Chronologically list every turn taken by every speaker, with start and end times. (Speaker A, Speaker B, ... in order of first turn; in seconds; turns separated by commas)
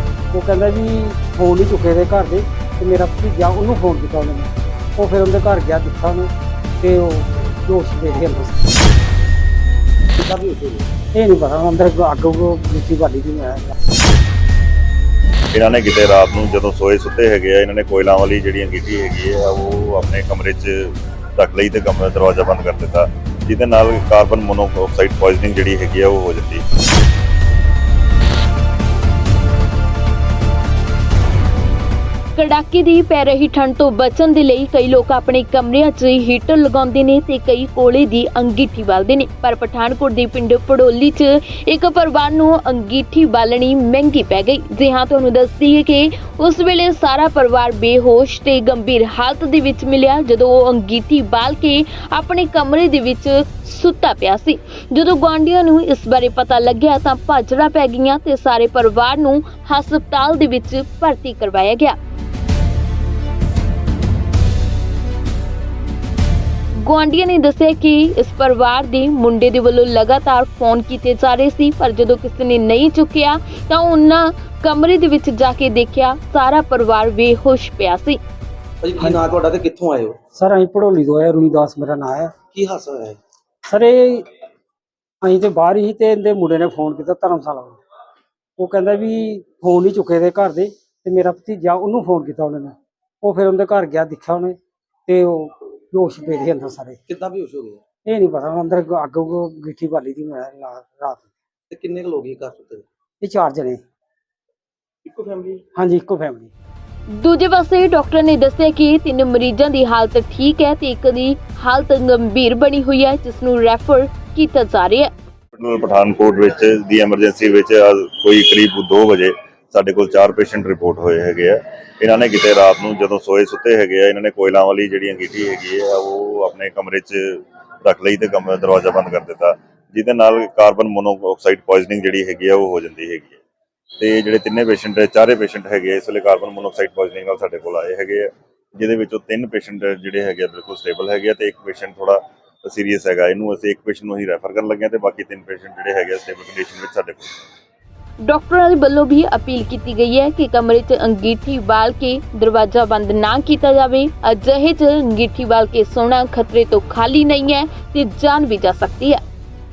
Speaker A: 0.3-8.6, Speaker B: 10.2-10.9, Speaker A: 11.1-13.7, Speaker C: 15.5-26.6, Speaker D: 32.4-61.9, Speaker D: 66.8-78.2, Speaker B: 78.8-80.2, Speaker A: 80.3-82.3, Speaker B: 82.5-83.2, Speaker A: 83.7-84.2, Speaker A: 85.2-87.8, Speaker A: 88.6-97.0, Speaker B: 97.1-97.8, Speaker A: 98.0-101.3, Speaker B: 101.7-102.8, Speaker A: 103.2-103.8, Speaker B: 105.0-105.6, Speaker A: 105.8-106.5, Speaker D: 107.2-115.1, Speaker C: 115.5-133.4, Speaker C: 134.0-147.3, Speaker D: 148.2-159.2